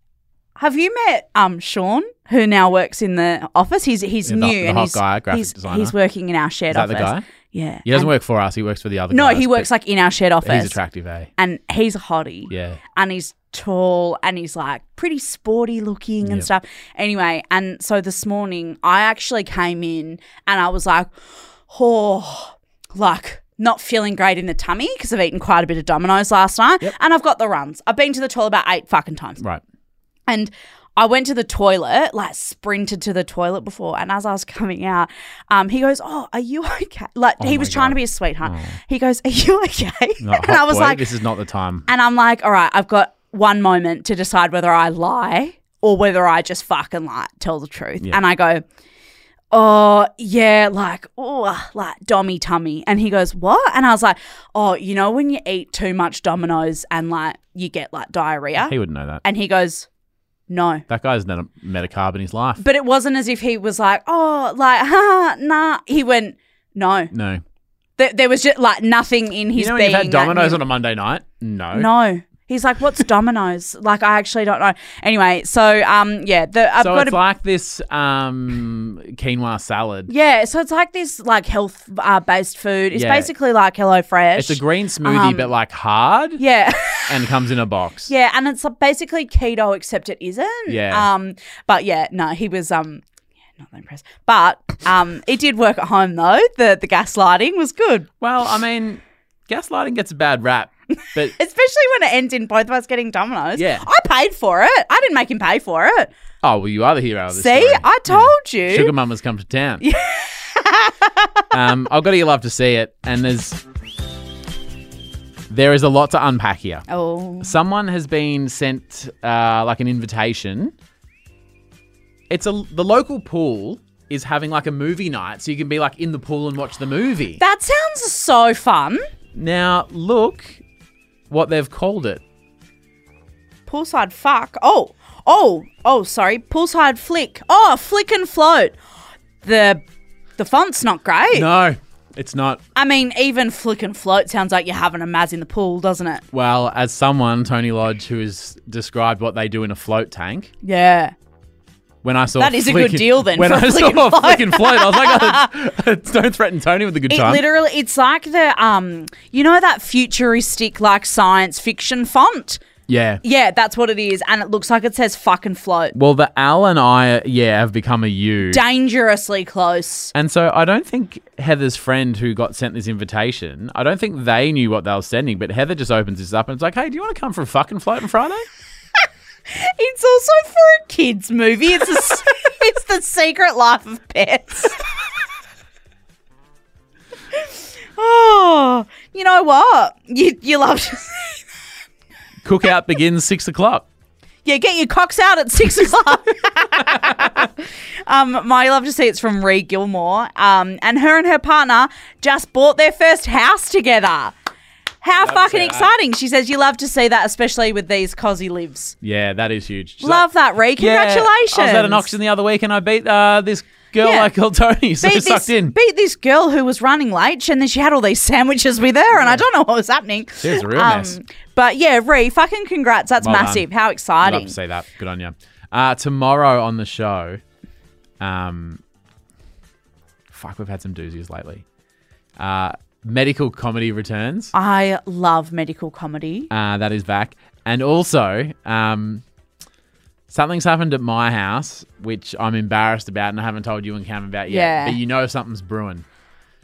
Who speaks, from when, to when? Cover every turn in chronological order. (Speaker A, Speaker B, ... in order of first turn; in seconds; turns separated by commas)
Speaker A: 0.6-8.1, Speaker B: 4.2-5.9, Speaker B: 6.7-7.2, Speaker B: 7.8-9.7, Speaker A: 9.1-10.8, Speaker B: 10.4-11.3, Speaker A: 11.4-21.1, Speaker B: 12.5-12.8, Speaker B: 16.2-16.5, Speaker A: 21.7-29.4, Speaker A: 30.3-41.0, Speaker B: 37.4-38.8, Speaker B: 40.2-41.9, Speaker A: 41.9-48.6, Speaker A: 49.5-59.9, Speaker B: 58.6-59.2, Speaker A: 60.5-60.8, Speaker B: 60.9-62.6, Speaker A: 62.6-67.1, Speaker B: 67.1-67.4, Speaker A: 68.0-70.6, Speaker B: 69.5-71.9, Speaker A: 71.7-77.2, Speaker B: 76.8-80.1, Speaker A: 80.1-85.5, Speaker B: 82.9-83.3, Speaker B: 84.4-86.4, Speaker A: 86.4-87.2, Speaker B: 87.0-88.1, Speaker A: 88.1-93.0, Speaker B: 90.7-91.1, Speaker A: 93.6-98.1, Speaker B: 98.2-101.3, Speaker A: 101.3-106.1, Speaker B: 103.5-103.8, Speaker B: 106.4-109.8, Speaker A: 107.3-108.9, Speaker A: 109.8-111.5, Speaker B: 111.5-113.6, Speaker B: 115.5-116.8, Speaker A: 116.9-117.5, Speaker B: 117.4-120.7, Speaker B: 122.3-127.4, Speaker A: 127.4-129.1, Speaker B: 129.3-130.6, Speaker B: 131.3-132.2, Speaker A: 133.7-138.7, Speaker A: 139.4-139.8, Speaker A: 140.4-141.5, Speaker B: 141.3-142.6, Speaker A: 142.8-146.2, Speaker B: 146.3-150.5, Speaker A: 150.6-151.1, Speaker B: 152.0-157.4, Speaker A: 152.4-155.4, Speaker A: 157.1-162.6, Speaker B: 162.9-163.2, Speaker A: 163.2-165.9, Speaker B: 165.9-168.6, Speaker A: 168.5-170.1, Speaker B: 170.1-178.4, Speaker A: 179.5-184.8, Speaker A: 187.3-191.4, Speaker B: 192.4-193.8, Speaker A: 194.4-204.3, Speaker B: 196.9-197.4, Speaker A: 205.0-208.9, Speaker B: 205.2-205.9, Speaker B: 209.0-210.2, Speaker A: 210.0-212.1, Speaker B: 210.8-215.7, Speaker A: 214.0-214.3, Speaker A: 215.0-224.5, Speaker B: 219.1-219.4, Speaker B: 220.4-221.2, Speaker B: 223.2-223.7, Speaker B: 224.2-227.4, Speaker B: 228.2-228.8, Speaker B: 230.3-231.6, Speaker B: 232.4-234.5, Speaker A: 234.5-236.5, Speaker B: 236.5-239.2, Speaker B: 240.3-246.1, Speaker A: 244.5-245.0